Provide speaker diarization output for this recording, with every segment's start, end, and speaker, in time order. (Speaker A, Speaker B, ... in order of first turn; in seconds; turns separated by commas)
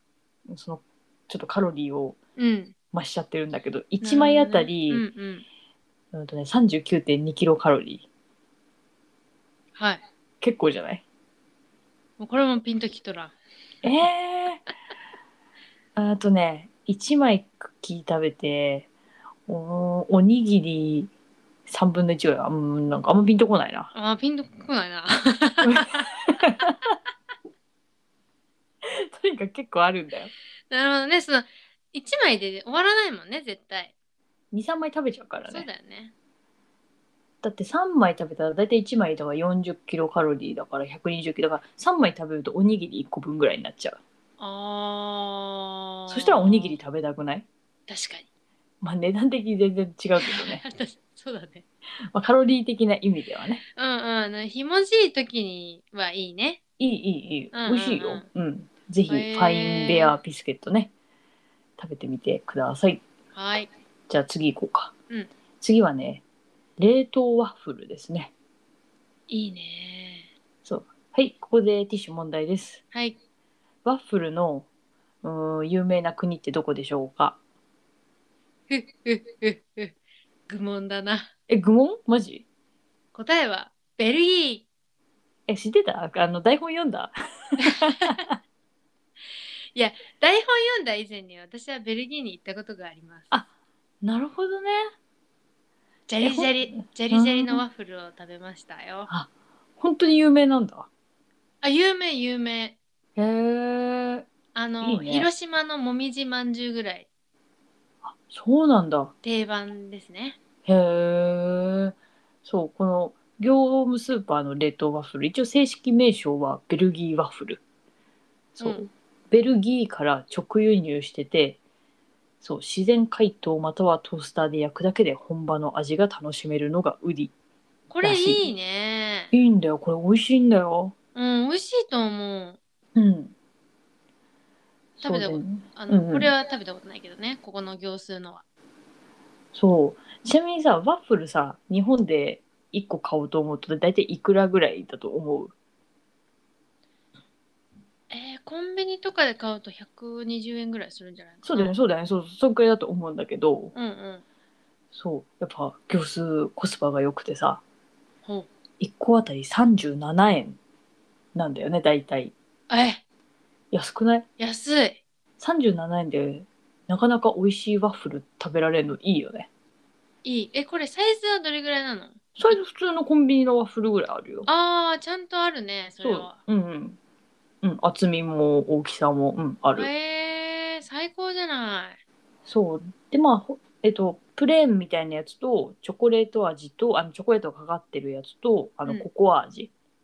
Speaker A: 0.5-2.2, Speaker B: 2.4-2.7, Speaker A: 2.9-5.0, Speaker B: 4.0-5.4, Speaker A: 6.1-8.0, Speaker B: 9.7-10.0, Speaker A: 10.4-11.0, Speaker B: 12.2-13.3, Speaker A: 13.8-14.6, Speaker A: 15.9-18.9, Speaker A: 19.5-21.1, Speaker A: 21.7-23.9, Speaker B: 23.9-26.2, Speaker A: 25.6-26.7, Speaker A: 28.8-30.3, Speaker B: 30.7-33.9, Speaker A: 34.5-35.7, Speaker B: 35.5-36.1, Speaker A: 37.4-44.0, Speaker B: 44.4-46.8, Speaker A: 46.1-47.4, Speaker B: 47.9-48.2, Speaker A: 48.8-50.6, Speaker B: 50.2-51.6, Speaker A: 52.1-53.6, Speaker B: 53.8-56.6, Speaker A: 56.8-60.9, Speaker B: 57.5-58.2, Speaker B: 59.1-60.1, Speaker A: 61.8-63.0, Speaker B: 63.3-63.7, Speaker A: 64.1-64.9, Speaker A: 65.6-66.2, Speaker A: 66.8-68.3, Speaker B: 69.3-70.3, Speaker A: 70.6-72.8, Speaker A: 73.8-74.7, Speaker A: 75.2-77.4, Speaker B: 78.7-79.9, Speaker B: 80.5-81.3, Speaker A: 81.5-82.4, Speaker B: 83.1-84.7, Speaker A: 85.5-88.2, Speaker B: 87.7-88.2, Speaker B: 89.7-93.3, Speaker A: 94.0-94.9, Speaker B: 96.1-99.1, Speaker A: 96.2-97.6, Speaker A: 99.1-100.9, Speaker B: 101.6-102.8, Speaker A: 103.2-104.2, Speaker B: 104.5-107.1, Speaker A: 104.8-105.3, Speaker A: 108.0-109.1, Speaker B: 109.2-110.4, Speaker A: 110.7-117.6, Speaker A: 118.5-121.6, Speaker B: 118.6-118.9, Speaker A: 122.4-127.3, Speaker B: 127.9-129.3, Speaker A: 128.0-128.5, Speaker A: 129.3-130.9, Speaker B: 131.1-132.6, Speaker A: 132.9-133.3, Speaker A: 135.0-136.3, Speaker B: 135.0-138.4, Speaker A: 139.5-145.5, Speaker B: 148.1-151.7, Speaker A: 151.4-153.7, Speaker B: 153.7-154.2, Speaker A: 154.9-157.6, Speaker A: 158.8-160.6, Speaker A: 161.3-162.3, Speaker B: 162.7-163.0, Speaker A: 163.7-164.3, Speaker B: 164.4-165.0, Speaker A: 165.4-169.5, Speaker B: 170.2-172.5, Speaker A: 172.3-174.5, Speaker B: 174.4-176.4, Speaker A: 176.0-177.0, Speaker A: 177.6-179.9, Speaker B: 179.7-182.0, Speaker A: 182.4-189.7